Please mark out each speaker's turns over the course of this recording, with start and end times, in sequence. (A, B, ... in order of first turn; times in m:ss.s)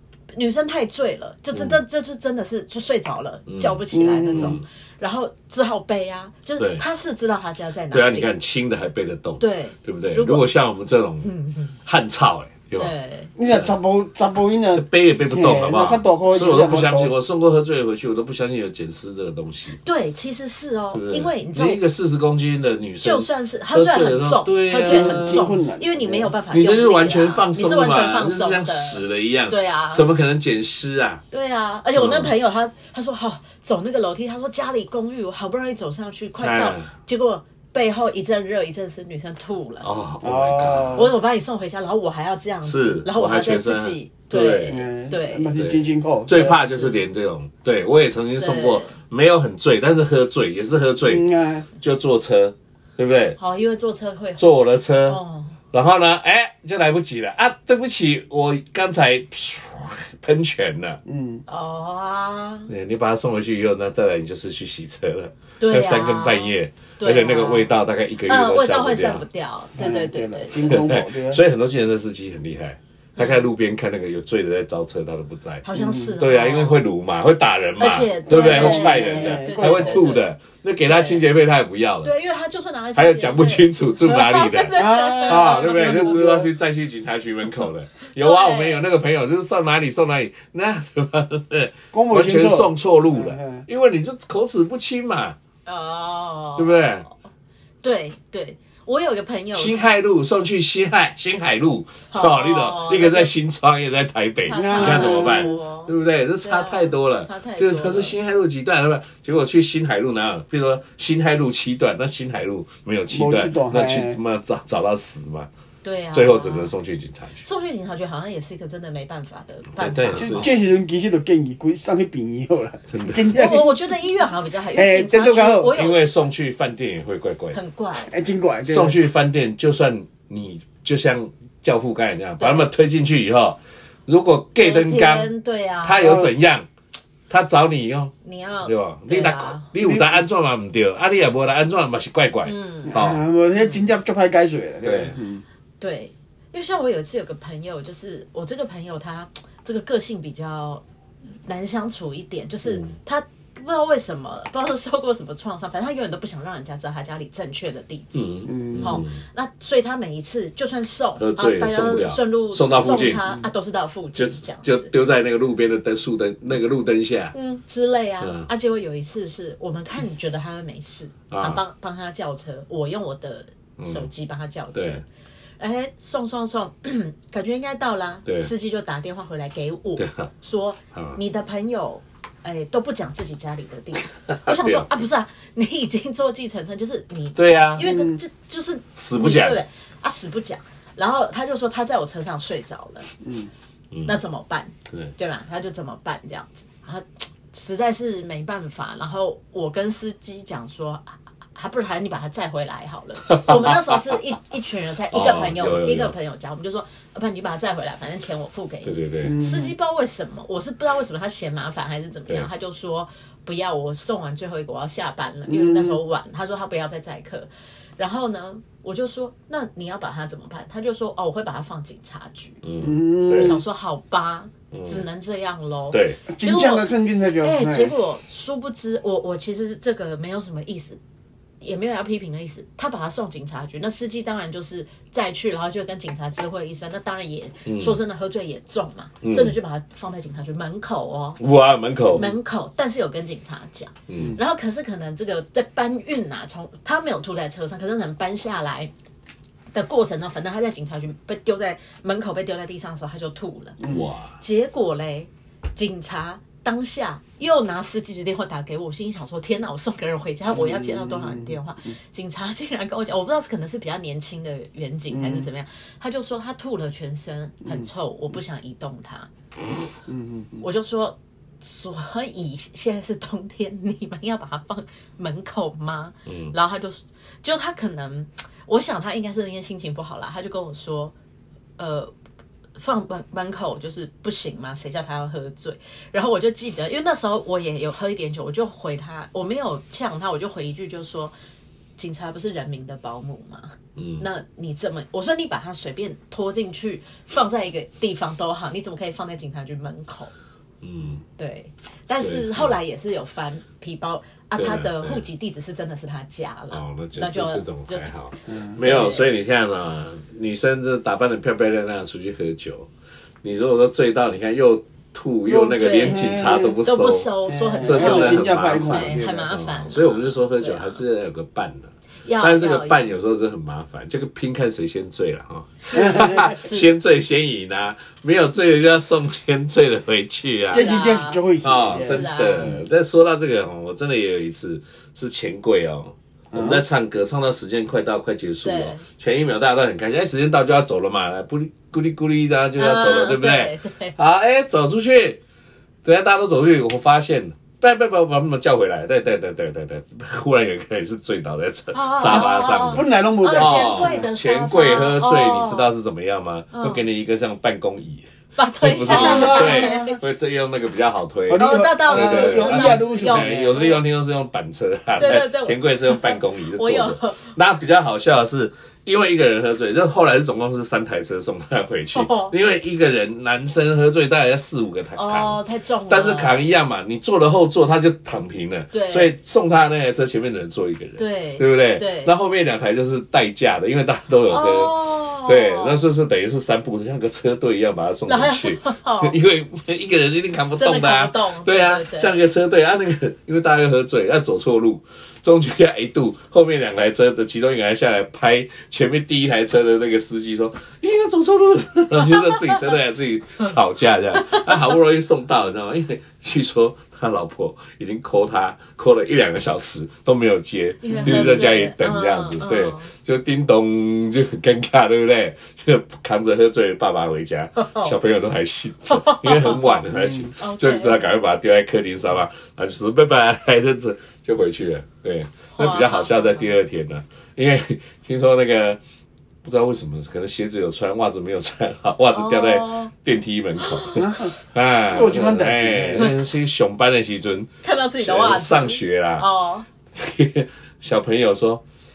0:00.3-0:08.3 A
0:01.5-0:01.8 B
0:03.5-0:04.6 B
0:03.9-0:04.6 C
0:06.6-0:06.8 B
0:07.9-0:11.3 B
0:09.4-0:10.4 A
0:11.2-0:11.8 A
0:11.8-0:12.9 B
0:12.8-0:13.3 A
0:13.4-0:17.1 C
0:13.5-0:13.7 B
0:14.8-0:19.8 B
0:19.8-0:21.8 A
0:20.9-0:25.4 B
0:23.0-0:30.1 A
0:24.8-0:26.3 C
0:26.5-0:31.2 B
0:31.3-0:39.9 A
0:32.0-0:32.3 B
0:36.4-0:36.9 B
0:39.8-0:41.1 B
0:40.2-0:41.1 C
0:40.9-0:45.5 A
0:42.6-0:44.8 B
0:44.7-0:46.6 C
0:45.6-0:53.4 B
0:48.4-0:48.9 A
0:51.1-0:51.6 C
0:53.4-0:54.6 A
0:54.4-0:55.2 B
0:55.1-0:55.6 A
0:55.7-1:01.0 B
1:01.1-1:01.4 C
1:01.5-1:02.7 A
1:02.7-1:09.2 B
1:05.6-1:07.7 A
1:08.2-1:10.8 A
1:09.8-1:11.4 C
1:10.7-1:15.6 B
1:13.2-1:13.4 A
1:15.6-1:16.9 A
1:15.7-1:16.2 C
1:16.2-1:22.1 B
1:17.8-1:20.3 A
1:18.3-1:20.1 C
1:20.9-1:21.2 A
1:22.0-1:26.2 A
1:22.9-1:35.4 B
1:24.7-1:26.5 C
1:28.2-1:28.9 A
1:31.9-1:33.6 C
1:35.6-1:37.1 A
1:36.6-1:37.1 B
1:37.8-1:39.9 A
1:39.5-1:55.5 B
1:42.1-1:43.3 A
1:44.4-1:45.9 A
1:44.5-1:45.6 C
1:46.4-1:48.1 A
1:53.1-1:54.2 C
1:55.8-1:56.7 A
1:56.1-1:57.4 B
1:57.4-2:00.5 A
1:59.7-2:00.5 B
2:00.2-2:03.7 C
2:02.9-2:03.3 B
2:03.3-2:06.0 A
2:04.7-2:05.7 C
2:05.7-2:07.6 B
2:07.5-2:08.1 A
2:08.1-2:09.0 C
2:08.6-2:15.3 B
2:12.4-2:12.7 A
2:14.6-2:16.2 A
2:15.8-2:16.6 B
2:16.0-2:16.3 C
2:17.3-2:18.1 B
2:18.2-2:19.7 A
2:18.6-2:23.2 B
2:19.8-2:20.1 C
2:22.4-2:22.9 A
2:22.9-2:25.4 C
2:24.8-2:25.2 B
2:25.8-2:30.8 A
2:31.4-2:44.9 A
2:38.1-2:39.2 B
2:38.5-2:39.0 C
2:41.2-2:43.2 B
2:44.1-2:47.4 B
2:47.3-2:55.0 A
2:48.2-2:48.5 B
2:51.3-2:51.6 B
2:53.8-2:54.1 B
2:54.7-2:55.0 B
2:55.6-3:13.1 A
2:58.2-2:58.5 B
3:00.0-3:00.3 B
3:04.3-3:04.9 B
3:07.4-3:07.9 B
3:07.8-3:08.2 C
3:09.0-3:09.6 B
3:13.2-3:13.5 C
3:13.9-3:14.2 B
3:14.1-3:42.6 A
3:23.2-3:24.0 B
3:25.1-3:26.1 B
3:28.8-3:29.4 B
3:29.2-3:29.7 C
3:35.5-3:36.0 C
3:42.6-3:43.6 B
3:42.8-3:43.6 C
3:43.3-3:46.9 A
3:44.7-3:45.0 B
3:45.9-3:46.2 B
3:46.3-3:47.9 C
3:47.4-3:51.0 A
3:51.6-4:01.4 A
3:57.6-3:58.0 B
3:59.2-3:59.6 B
4:01.4-4:02.3 B
4:02.1-4:08.9 A
4:04.1-4:04.4 B
4:09.7-4:29.3 A
4:13.9-4:14.4 B
4:20.5-4:21.9 C
4:25.1-4:25.5 C
4:30.1-4:30.6 C
4:30.6-4:41.1 A
4:36.2-4:36.5 B
4:41.8-4:42.1 A
4:42.8-4:51.3 A
4:52.0-5:00.3 A
4:54.0-4:54.3 B
5:00.8-5:01.2 B
5:01.4-5:08.1 A
5:02.1-5:02.7 B
5:04.6-5:05.2 B
5:06.7-5:12.9 B
5:08.5-5:08.8 C
5:08.8-5:09.2 A
5:13.4-5:17.3 B
5:15.5-5:16.8 C
5:15.8-5:16.2 A
5:16.8-5:21.0 A
5:17.4-5:19.6 C
5:17.8-5:30.9 B
5:22.2-5:23.1 A
5:25.8-5:26.9 A
5:25.9-5:26.5 C
5:30.6-5:32.8 C
5:30.7-5:32.8 A
5:31.6-5:45.4 B
5:36.5-5:36.8 C
5:38.6-5:39.0 A
5:42.8-5:44.1 A
5:46.0-5:58.3 B
5:51.9-5:55.9 A
5:52.3-5:54.3 C
5:56.7-5:57.0 A
5:58.6-6:00.2 A
5:58.8-7:09.0 B
5:59.0-6:00.2 C
6:01.5-6:03.8 C
6:01.5-6:04.0 A
6:05.2-6:07.6 A
6:12.1-6:12.6 A
6:15.2-6:16.6 A
6:18.9-6:19.3 A
6:21.2-6:22.3 A
6:24.5-6:26.0 A
6:28.3-6:29.4 A
6:30.8-6:32.4 A
6:44.4-6:44.9 A
6:51.0-6:53.1 A
6:51.1-6:51.6 C
6:57.8-6:58.1 A
6:59.1-7:00.0 A
7:00.1-7:00.5 C
7:00.6-7:01.2 A
7:05.8-7:06.6 A
7:09.6-7:19.4 B
7:12.3-7:13.1 A
7:13.8-7:14.2 A
7:14.1-7:14.6 C
7:15.1-7:16.3 C
7:17.8-7:19.9 A
7:20.1-7:21.8 B